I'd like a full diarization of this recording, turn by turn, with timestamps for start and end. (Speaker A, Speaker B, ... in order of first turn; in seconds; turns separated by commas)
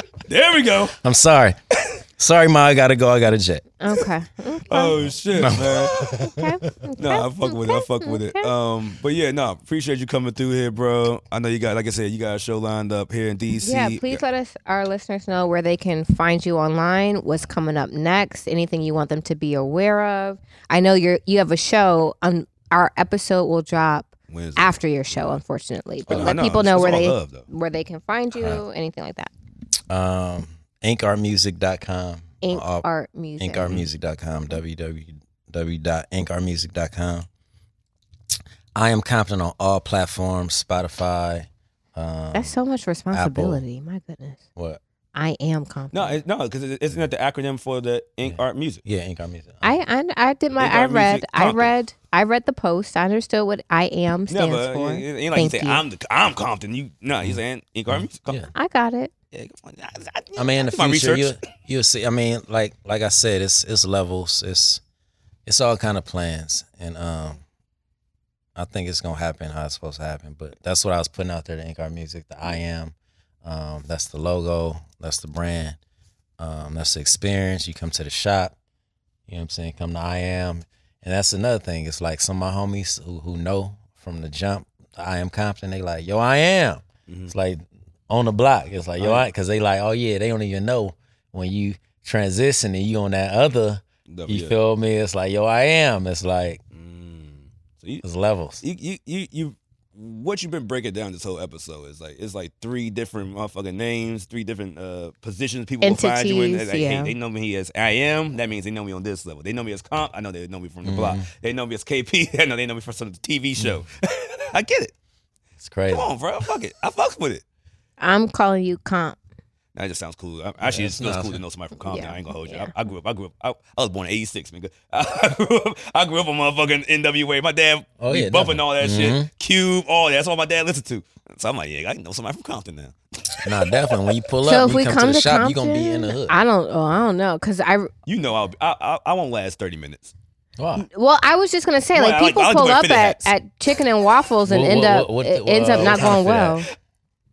Speaker A: 0.2-0.9, Speaker B: 1.0-1.6, Speaker B: 2.2-3.6, Speaker C: 3.8-5.0, Speaker A: 4.7-6.1, Speaker B: 5.3-6.7, Speaker C: 6.2-8.5, Speaker A: 7.0-14.2, Speaker C: 13.6-29.3, Speaker A: 24.3-25.4, Speaker A: 26.1-27.5, Speaker B: 28.3-28.6, Speaker B: 29.9-32.9, Speaker C: 32.4-33.8, Speaker B: 33.4-37.3, Speaker B: 38.7-42.5, Speaker C: 42.3-44.4, Speaker B: 43.1-43.6, Speaker C: 45.1-46.2, Speaker A: 45.9-48.8, Speaker B: 48.2-49.7, Speaker C: 49.6-55.8, Speaker A: 50.6-51.7, Speaker A: 54.3-58.4, Speaker B: 57.2-58.5, Speaker C: 58.5-59.1, Speaker A: 59.3-61.4, Speaker B: 60.4-64.8, Speaker B: 65.5-67.4, Speaker B: 68.5-75.8, Speaker B: 76.4-78.5, Speaker B: 79.3-96.6, Speaker A: 87.1-87.3, Speaker A: 89.0-89.2, Speaker A: 94.1-94.5, Speaker A: 96.7-98.0, Speaker B: 98.0-98.6, Speaker A: 98.6-114.9, Speaker C: 105.8-107.1, Speaker B: 110.8-111.2, Speaker B: 115.6-116.1, Speaker A: 115.9-117.4, Speaker C: 118.0-119.2, Speaker A: 119.7-133.5, Speaker B: 120.6-121.4, Speaker C: 121.8-122.7, Speaker B: 128.0-129.3, Speaker B: 133.4-136.3, Speaker C: 134.4-137.9, Speaker A: 138.1-140.1, Speaker B: 140.6-140.8, Speaker C: 140.8-146.7, Speaker A: 141.9-143.3, Speaker B: 144.4-146.6, Speaker A: 145.7-146.3